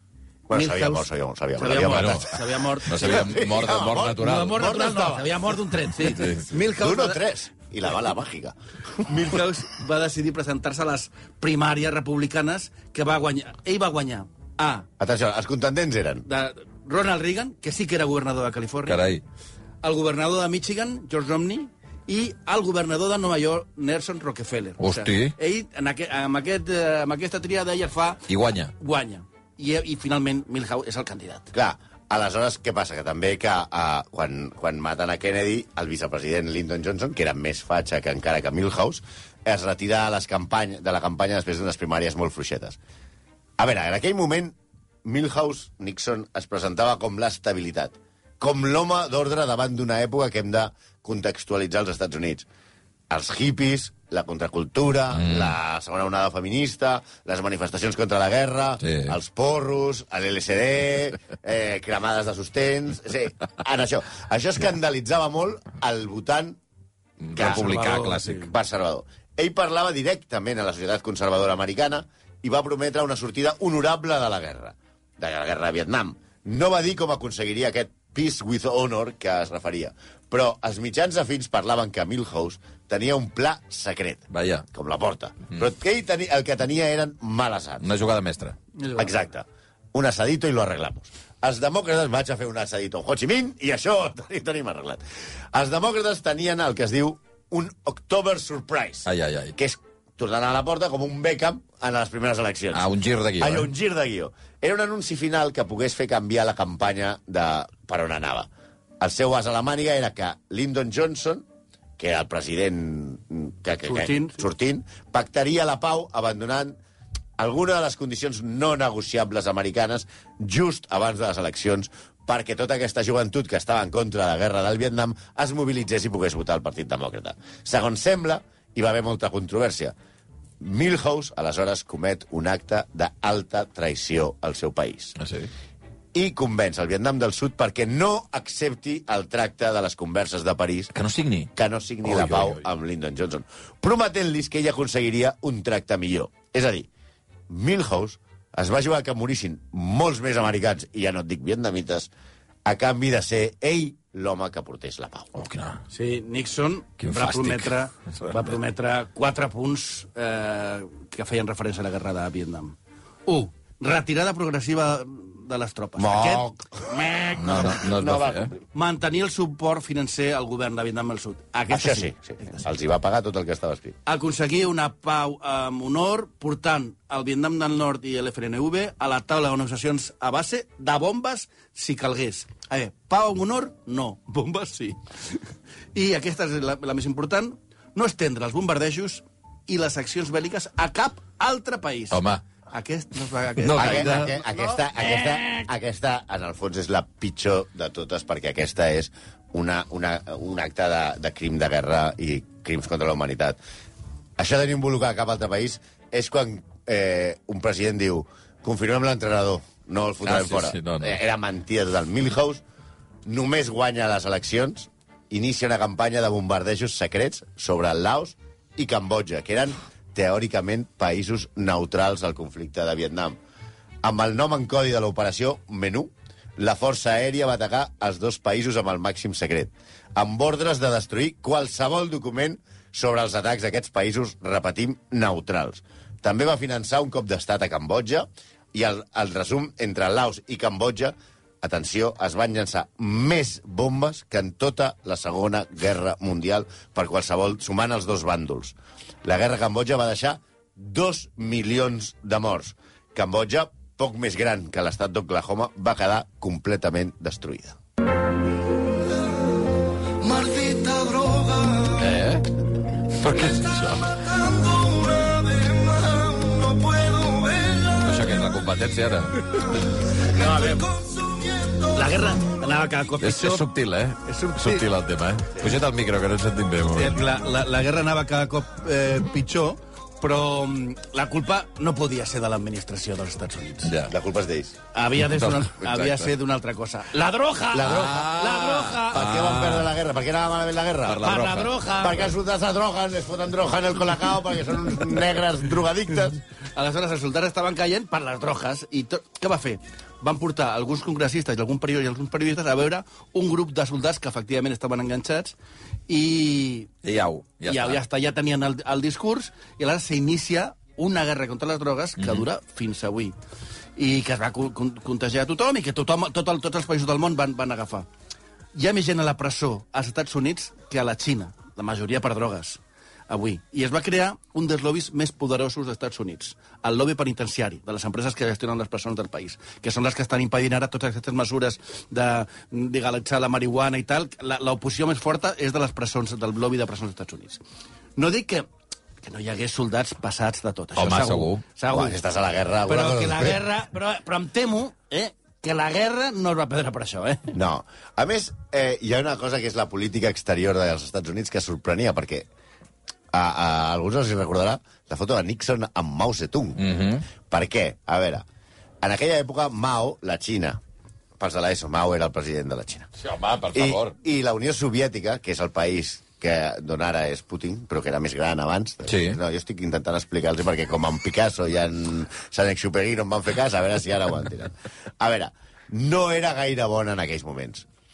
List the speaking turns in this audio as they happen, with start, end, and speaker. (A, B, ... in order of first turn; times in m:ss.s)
0:00.5-0:05.4 A
0:00.5-0:03.3 B
0:01.8-0:02.3 C
0:02.9-0:04.6 C
0:04.2-0:07.2 B
0:06.0-0:06.5 C
0:06.8-0:09.1 A
0:09.0-0:14.9 B
0:15.0-0:16.2 A
0:16.2-0:19.0 B
0:18.9-0:19.2 C
0:19.8-0:28.2 B
0:24.8-0:25.3 C
0:28.3-0:28.7 C
0:28.8-0:31.5 B
0:31.5-0:42.8 A
0:43.6-0:52.4 A
0:53.1-1:06.6 A
0:55.2-0:55.5 C
0:58.8-0:59.2 C
1:07.2-1:08.5 C
1:07.3-1:07.6 A
1:07.4-1:08.5 B
1:08.4-1:27.9 A
1:24.3-1:24.6 C
1:27.8-1:28.6 C
1:28.8-1:29.2 B
1:29.0-1:42.8 A
1:39.0-1:39.5 C
1:42.7-1:43.7 C
1:43.4-1:48.5 A
1:49.0-1:51.4 A
1:52.0-1:56.8 A
1:53.8-1:54.4 B
1:57.4-2:09.9 A
2:10.6-2:15.2 A
2:15.2-2:15.5 C
2:16.1-2:20.9 A
2:20.9-2:21.5 C
2:21.6-2:26.9 A
2:22.0-2:22.6 C
2:27.5-2:32.1 A
2:32.6-2:35.3 A
2:35.3-2:35.8 C
2:35.9-2:42.7 B
2:37.0-2:37.7 C
2:43.2-2:47.8 B
2:46.0-2:48.6 A
2:47.4-2:48.5 C
2:48.7-2:52.5 B
2:51.7-2:54.0 A
2:54.0-3:05.4 B
3:05.9-3:15.7 B
3:12.1-3:12.4 C
3:13.6-3:14.3 C
3:13.7-3:23.6 A
3:24.4-3:32.6 A
3:30.2-3:31.2 C
3:33.2-3:43.4 A
3:44.0-4:17.8 A
4:21.9-4:22.5 C
4:23.1-4:24.3 C
4:27.9-4:29.7 C
4:30.3-4:30.9 B
4:31.8-4:33.6 B
4:33.2-4:37.3 C
4:34.2-4:34.9 B
4:36.9-4:43.9 B
4:43.8-4:44.1 C
4:44.1-4:44.8 A
4:44.9-4:49.2 B
4:45.2-4:46.3 C
4:47.7-4:48.2 A
4:47.8-4:49.9 C
4:49.1-4:51.3 A
4:51.0-4:51.7 C
4:51.2-4:52.3 B
4:52.0-4:56.4 A
4:56.7-5:05.5 B
5:06.1-5:06.9 B
5:07.0-5:08.0 C
5:07.6-5:13.3 B
5:12.2-5:12.4 C
5:14.0-5:18.1 B
5:18.7-5:37.6 B
5:38.2-5:38.7 B
5:39.2-5:42.2 B
5:41.0-5:41.6 C
5:41.9-5:43.6 A
5:42.9-5:47.5 B
5:47.5-5:52.5 A
5:53.3-5:56.8 A
5:56.8-5:57.2 C
5:57.3-5:58.4 A
5:59.0-6:00.8 A
6:01.4-6:03.1 A
6:03.2-6:04.1 C
6:03.7-6:17.8 A
6:09.0-6:09.4 C